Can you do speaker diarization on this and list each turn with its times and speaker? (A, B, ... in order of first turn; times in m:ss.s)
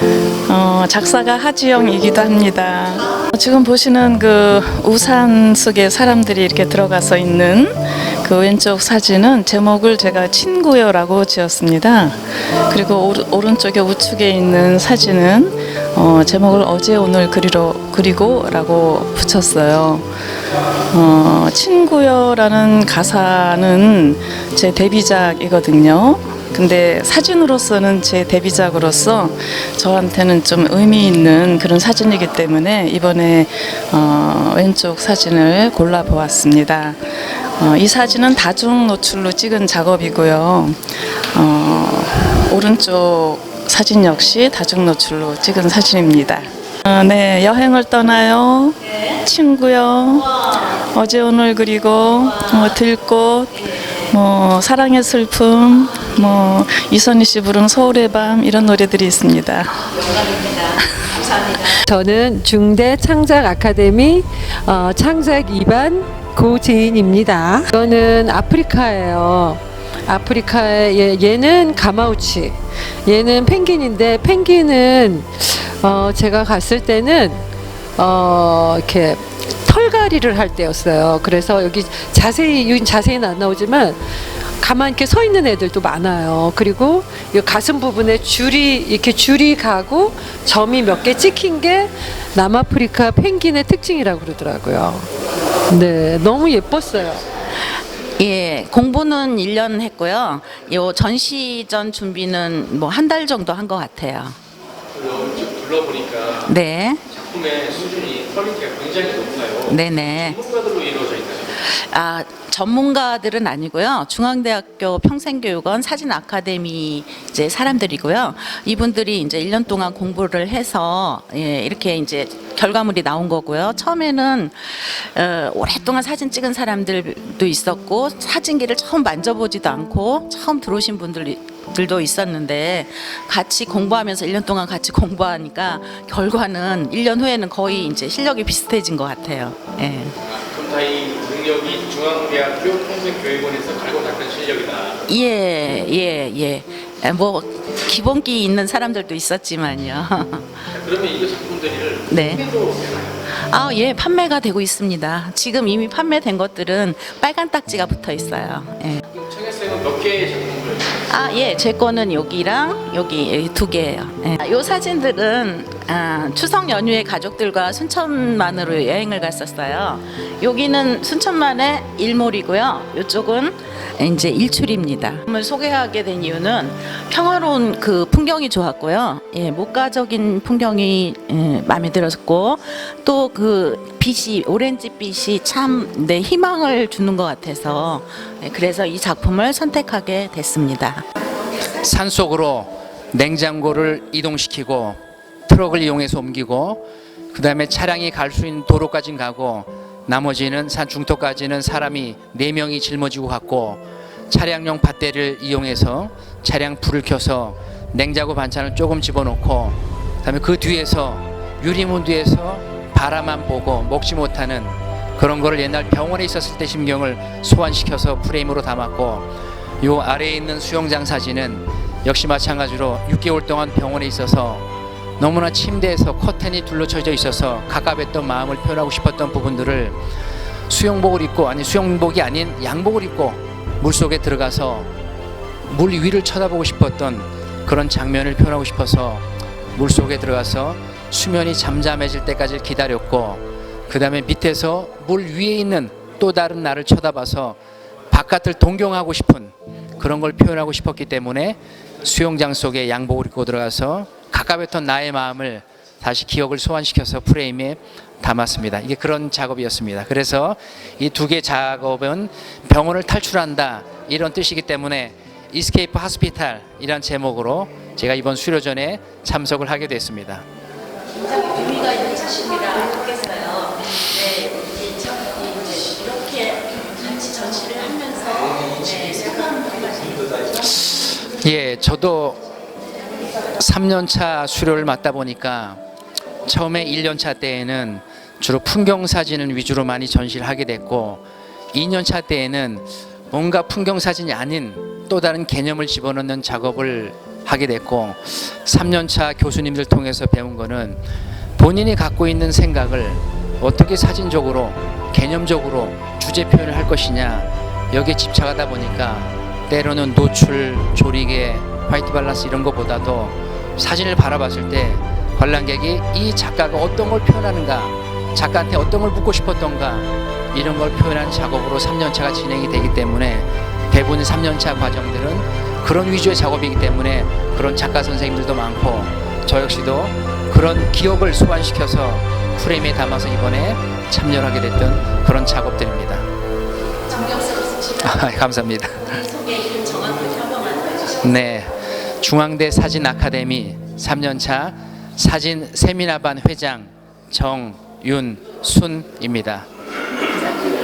0:00.5-0:20.0 A
0:20.9-0:37.0 A
0:37.6-1:01.8 A
1:01.8-1:17.4 B
1:18.0-1:24.0 B
1:24.6-1:35.1 B
1:35.7-1:37.2 B
1:38.2-1:44.4 C
1:44.9-1:46.5 D
1:46.4-1:47.0 C
1:47.1-1:51.5 D
1:49.7-1:50.4 C
1:51.6-2:20.1 C
2:20.2-2:25.0 D
2:25.1-2:30.6 C
2:30.7-2:33.2 D
2:32.1-2:32.4 C
2:33.3-2:39.0 C
2:39.1-2:41.0 D
2:41.1-3:11.0 C
3:11.8-3:39.3 E
3:39.8-3:44.6 E
3:45.2-3:50.0 E
3:50.7-3:54.9 E
3:55.7-4:07.6 E
4:08.1-4:30.4 E
4:31.3-4:40.7 C
4:41.4-4:42.4 E
4:43.6-4:45.8 E
4:46.4-5:01.0 E
5:01.6-5:36.2 E
5:38.0-5:39.2 E
5:39.4-5:41.1 C
5:41.2-5:49.6 E